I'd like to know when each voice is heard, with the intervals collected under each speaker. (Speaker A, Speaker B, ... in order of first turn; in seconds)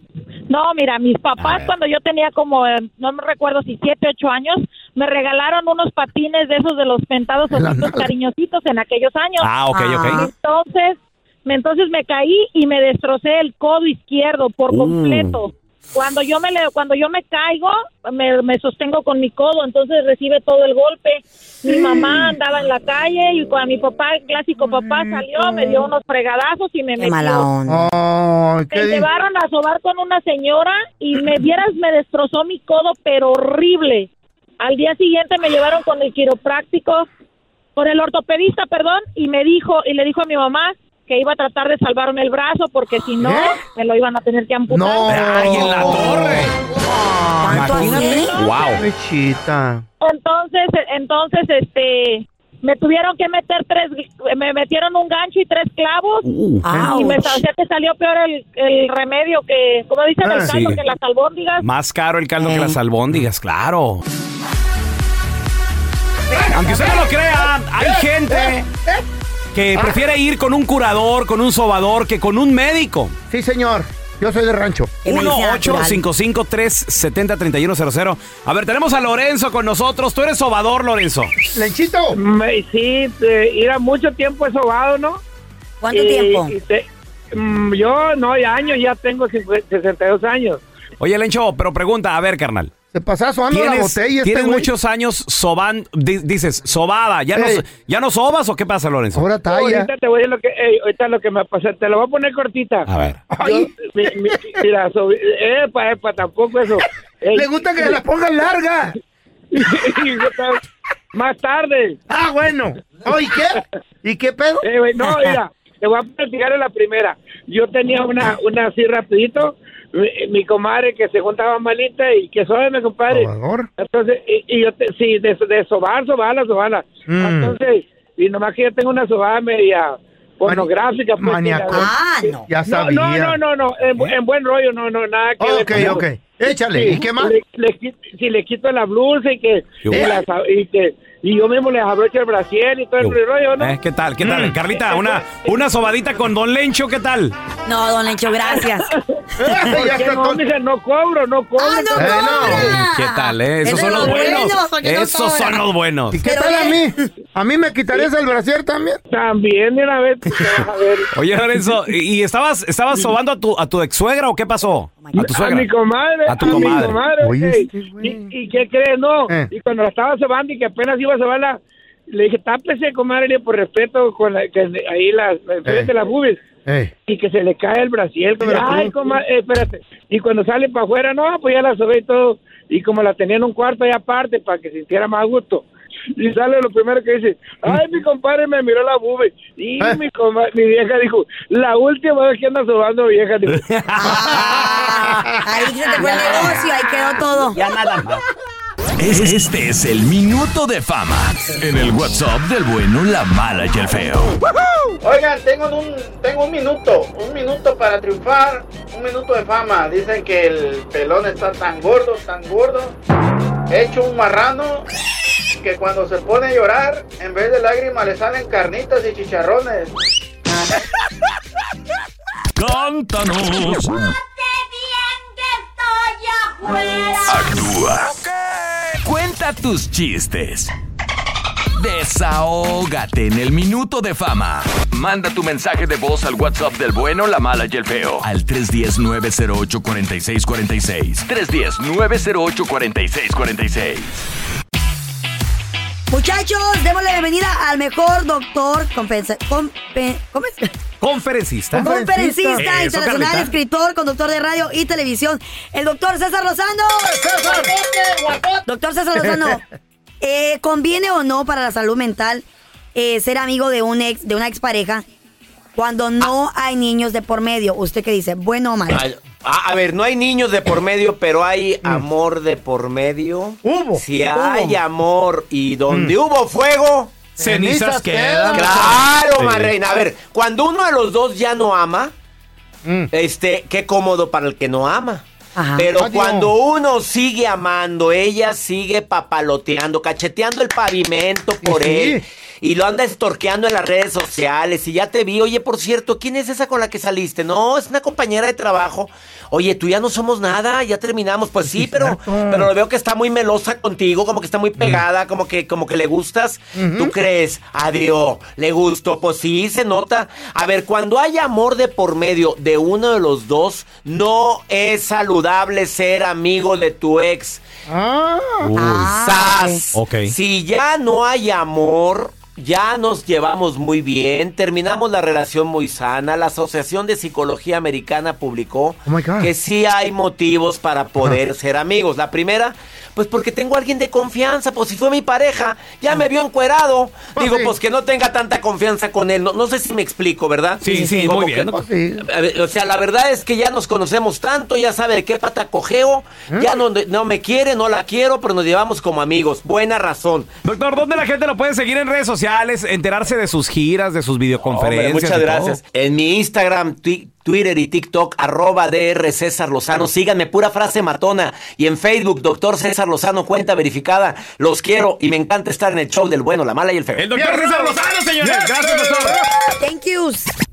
Speaker A: 0.5-9.5, 10.1-27.5, 28.7-34.1, 34.6-37.1, 37.8-45.1, 48.1-48.5, 50.0-61.6
Speaker B: 1.4-1.7, 9.4-10.2, 14.7-15.2, 45.1-46.5, 47.5-48.8, 56.2-56.6, 60.4-60.8, 61.6-64.0, 66.5-68.7, 69.5-73.1, 75.0-81.3, 91.0-92.7, 93.5-99.2, 102.9-103.2, 139.8-140.1, 143.0-147.3, 152.4-156.2, 161.1-165.7, 166.2-167.0, 193.5-194.8, 196.0-196.5, 197.5-198.2, 251.0-251.9, 252.6-253.5, 277.4-279.6, 318.6-319.1, 319.9-320.3, 340.8-341.7, 350.6-355.8, 367.2-369.4
Speaker C: 7.5-8.1, 27.7-29.0, 43.2-43.5, 44.7-46.5, 47.4-49.8, 66.3-69.0, 69.7-70.0, 73.3-75.0, 81.5-82.2, 92.9-94.7, 97.3-97.6, 99.1-99.9, 103.3-104.4, 107.3-108.9, 112.1-114.7, 123.1-123.7, 127.1-127.5, 130.4-133.4, 135.4-137.3, 139.9-140.2, 149.4-150.4, 151.9-152.8, 156.1-159.0, 166.4-168.3, 176.6-176.9, 178.4-178.9, 194.5-195.3, 251.7-252.6, 257.1-257.8, 273.6-274.7, 277.4-278.9, 282.8-283.1, 285.9-286.5, 291.6-292.2, 301.8-302.7, 306.7-307.1, 317.9-318.7, 329.1-329.5, 337.4-337.7, 341.6-342.2, 367.3-369.4
Speaker D: 9.7-10.2, 27.0-27.9, 46.9-48.3, 56.6-57.4, 62.4-62.7, 75.0-76.0, 85.8-86.5, 131.7-132.5, 147.7-148.9, 149.5-149.8, 151.6-155.6, 156.2-156.9, 165.0-165.3, 193.9-197.6, 246.1-250.7, 251.8-257.8, 258.6-259.6, 260.2-262.4, 262.9-265.0, 265.8-269.1, 285.5-285.9, 318.8-319.8, 369.8-370.5
Speaker E: 82.1-85.2, 85.9-90.6, 99.5-102.9, 103.4-108.0, 109.5-110.6, 111.1-112.0, 114.6-131.9, 132.7-143.7, 144.9-145.3, 149.7-152.6, 153.7-154.4, 159.1-161.1, 165.2-171.6, 172.1-176.4, 177.1-185.6, 186.2-193.6
Speaker F: 199.0-204.4, 222.6-224.0, 227.2-228.3, 229.0-230.7, 231.7-244.1
Speaker G: 206.4-206.8, 207.7-208.2, 209.8-210.2, 210.8-212.7, 213.9-214.3, 217.2-218.6
Speaker H: 268.9-277.1, 278.5-282.1, 283.1-285.2, 285.8-317.6, 319.2-350.5, 354.6-367.4